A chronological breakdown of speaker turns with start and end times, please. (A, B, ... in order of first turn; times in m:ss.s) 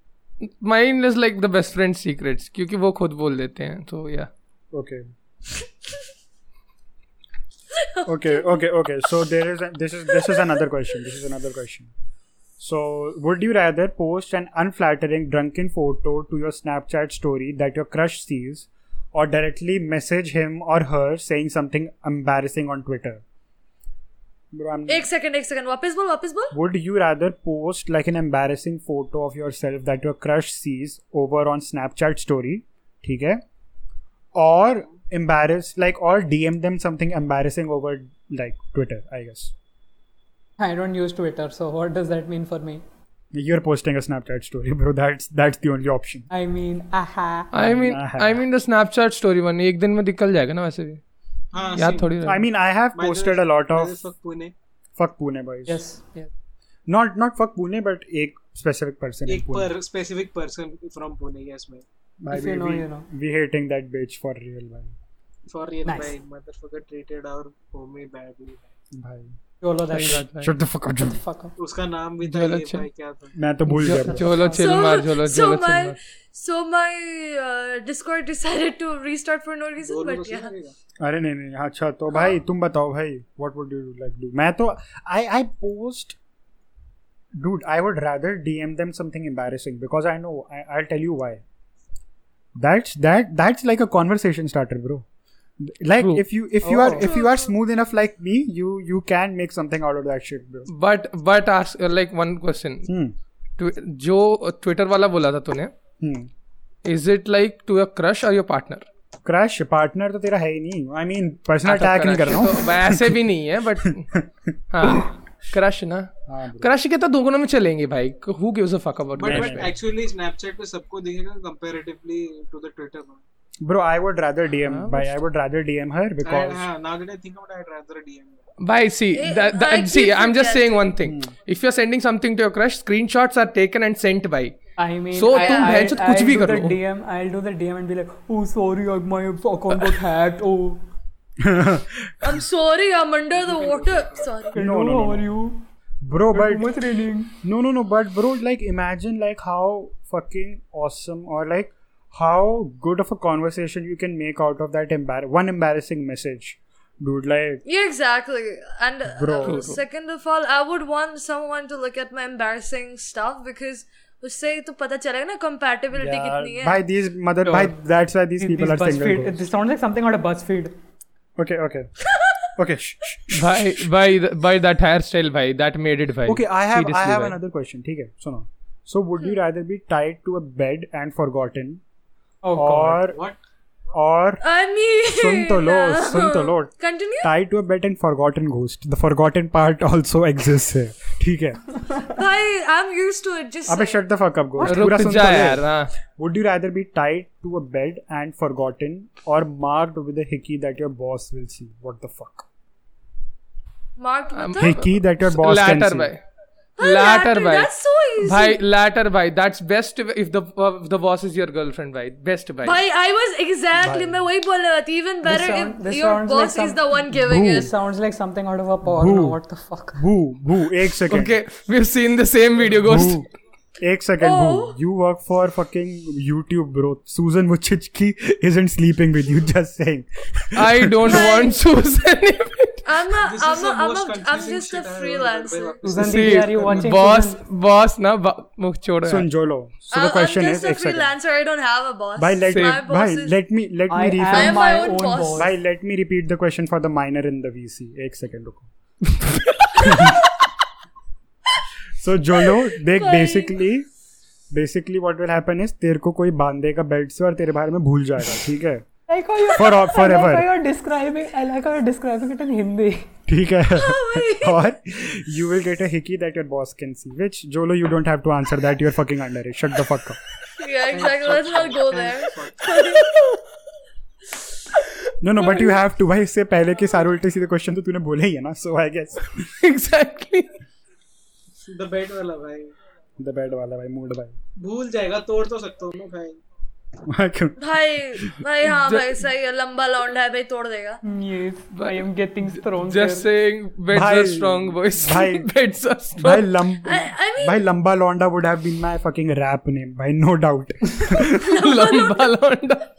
0:00.4-0:04.3 A
0:04.7-0:05.0 B
0:07.7-0:08.6 C
0:08.0-0:11.9 B
0:10.1-0:10.4 C
0:12.6-0:23.2 B
0:24.5-0:25.1 B
0:24.9-0:26.6 C
0:26.5-0:33.4 B
0:34.3-0:39.5 B
0:40.6-0:42.8 D
0:43.3-0:46.3 B
0:46.3-0:47.5 D
0:47.5-0:51.0 A
0:47.6-0:48.4 B
0:51.5-0:52.1 E
0:51.7-0:52.4 A
0:52.2-0:54.0 B
0:52.9-0:54.5 E
0:55.0-0:55.8 B
0:55.7-0:56.3 D
0:56.9-0:59.7 B
0:59.3-1:01.8 E
1:02.2-1:04.9 B
1:02.3-1:03.1 D
1:05.5-1:08.7 E
1:05.8-1:06.1 D
1:08.9-1:09.3 B
1:09.6-1:10.3 D
1:09.9-1:10.5 A
1:10.3-1:11.2 B
1:11.0-1:11.5 D
1:11.6-1:13.3 E
1:12.2-1:12.8 A
1:13.3-1:14.2 B
1:13.7-1:16.0 A
1:13.8-1:14.8 D
1:14.5-1:20.5 C
1:19.8-1:20.7 E
1:21.0-1:26.2 B
1:27.4-1:31.4 B
1:32.6-1:35.0 B
1:35.6-1:40.7 B
1:36.6-1:37.1 D
1:37.0-1:37.5 C
1:40.7-1:42.9 A
1:42.8-1:43.1 B
1:43.6-1:45.7 A
1:46.0-1:46.3 B
1:46.8-1:48.8 A
1:49.2-1:53.2 B
1:51.6-1:54.1 A
1:53.8-1:55.1 B
1:54.7-1:56.1 A
1:56.3-1:56.7 B
1:56.6-1:59.7 A
1:59.2-2:03.2 E
1:59.2-1:59.7 B
2:03.6-2:06.7 B
2:04.7-2:05.1 A
2:06.2-2:08.5 E
2:08.6-2:14.6 A
2:09.1-2:10.9 C
2:11.0-2:11.3 B
2:14.8-2:20.8 D
2:15.1-2:16.8 A
2:15.4-2:15.8 C
2:21.4-2:22.4 B
2:22.2-2:24.6 C
2:23.3-2:24.3 E
2:24.5-2:25.6 D
2:24.5-2:25.3 B
2:26.0-2:26.7 B
2:26.3-2:27.4 D
2:27.4-2:37.6 B
2:37.6-2:46.8 C
2:39.1-2:39.7 B
2:39.4-2:39.8 A
2:45.9-2:49.4 B
2:47.4-2:47.8 D
2:48.4-2:50.7 D
2:51.4-2:51.9 B
2:52.6-2:53.9 B
2:53.3-2:57.4 A
2:56.3-3:01.8 B
3:02.4-3:03.0 D
3:02.5-3:03.2 B
3:03.1-3:03.4 E
3:03.9-3:04.4 B
3:04.4-3:07.3 C
3:05.1-3:11.7 B
3:12.0-3:14.0 C
3:13.7-3:22.4 B
3:14.6-3:15.9 A
3:24.0-3:24.8 C
3:24.3-3:26.2 A
3:24.6-3:26.1 B
3:26.8-3:28.6 C
3:26.8-3:27.7 A
3:28.2-3:32.8 A
3:32.6-3:37.7 C
3:33.8-3:34.3 B
3:35.2-3:40.0 D
3:37.2-3:37.7 B
3:38.8-3:39.4 B
3:40.0-3:41.4 B
3:41.1-3:43.2 A
3:42.8-3:43.3 B
3:43.8-3:51.3 B
3:44.2-3:44.8 C
3:50.5-3:52.8 A
3:51.0-3:51.6 C
3:52.8-3:55.8 C
3:53.2-3:57.1 E
3:55.8-3:57.4 D
3:56.0-3:59.3 A
3:59.0-4:01.1 B
3:59.9-4:03.3 C
4:02.2-4:04.6 B
4:02.5-4:02.8 A
4:03.9-4:05.5 D
4:04.3-4:05.5 C
4:05.4-4:08.7 B
4:09.1-4:10.2 A
4:09.8-4:10.2 B
4:12.0-4:13.9 B
4:12.5-4:13.6 C
4:14.5-4:18.9 B
4:19.1-4:23.1 D
4:19.5-4:20.5 B
4:23.3-4:30.2 B
4:23.8-4:24.6 C
4:30.6-4:33.1 C
4:30.9-4:32.9 E
4:32.8-4:33.4 A
4:35.2-4:39.5 B
4:39.4-4:40.6 A
4:41.6-4:42.7 E
4:43.2-4:44.3 B
4:44.6-4:46.4 E
4:47.1-4:47.6 B
4:47.6-4:51.0 C
4:51.0-4:53.3 D
4:51.7-4:56.5 A
4:53.9-4:55.5 B
4:56.2-5:01.4 B
4:56.8-4:57.6 C
5:01.3-5:02.3 C
5:01.4-5:02.9 A